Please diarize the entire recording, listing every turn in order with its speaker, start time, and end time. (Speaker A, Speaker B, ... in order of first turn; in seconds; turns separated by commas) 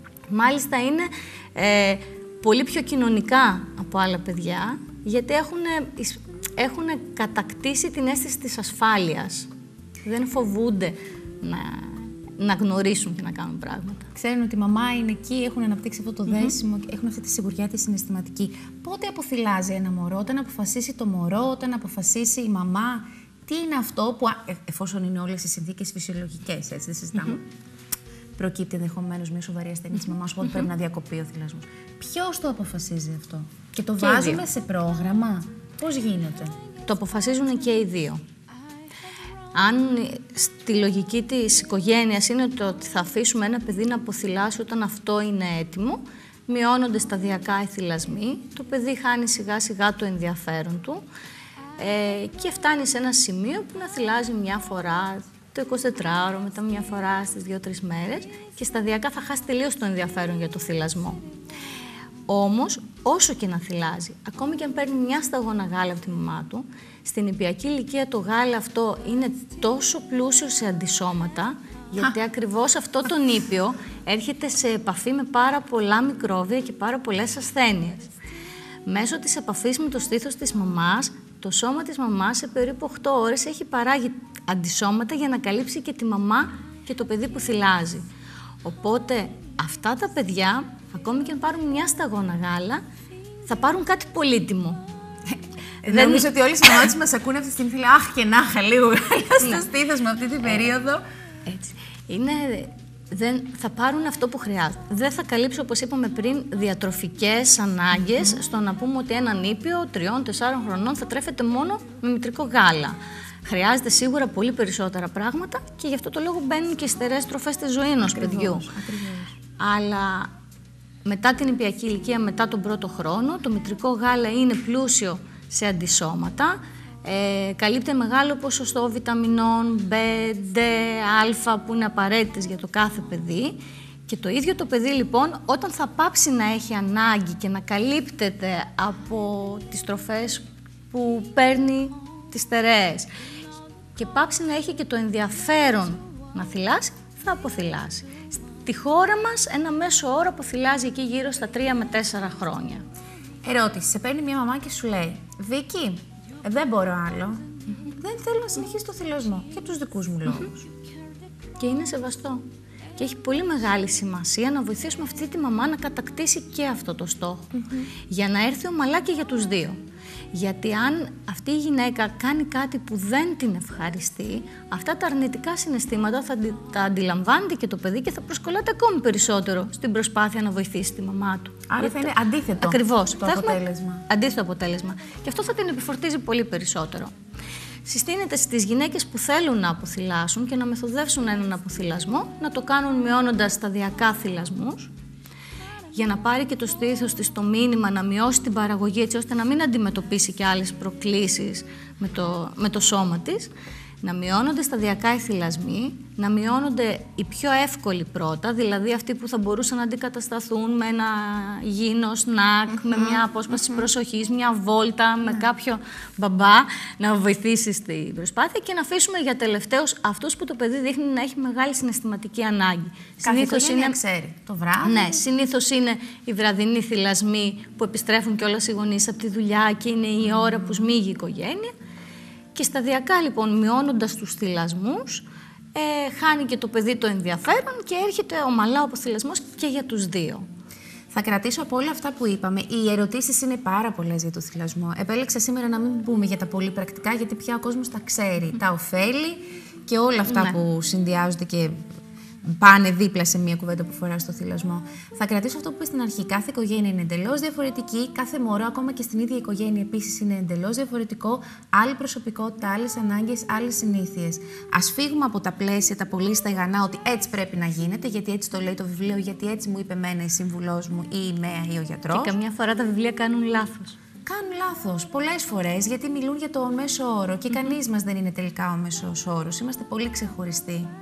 Speaker A: 0.3-9.5, Speaker A: 10.0-14.1, Speaker B: 14.1-27.4, Speaker B: 28.4-36.5, Speaker A: 34.0-34.4, Speaker A: 36.9-38.2, Speaker A: 39.5-51.0, Speaker A: 51.8-61.2, Speaker A: 62.3-78.1, Speaker A: 78.8-88.0, Speaker A: 88.6-92.8, Speaker A: 93.5-94.8, Speaker B: 95.3-101.0, Speaker A: 95.8-96.3, Speaker A: 101.5-118.7, Speaker B: 118.0-119.3, Speaker A: 119.6-120.3, Speaker A: 121.0-143.1, Speaker A: 143.9-152.8, Speaker B: 153.4-160.6, Speaker A: 161.6-162.4, Speaker A: 163.0-169.8, Speaker B: 167.5-167.9, Speaker A: 170.3-187.1, Speaker B: 181.7-184.0, Speaker A: 187.8-194.9, Speaker A: 195.9-224.0, Speaker B: 223.2-225.2, Speaker A: 224.8-231.7, Speaker A: 232.5-240.4, Speaker B: 241.1-251.8, Speaker A: 250.3-250.6, Speaker B: 252.4-272.4, Speaker A: 272.1-273.9, Speaker B: 274.2-280.9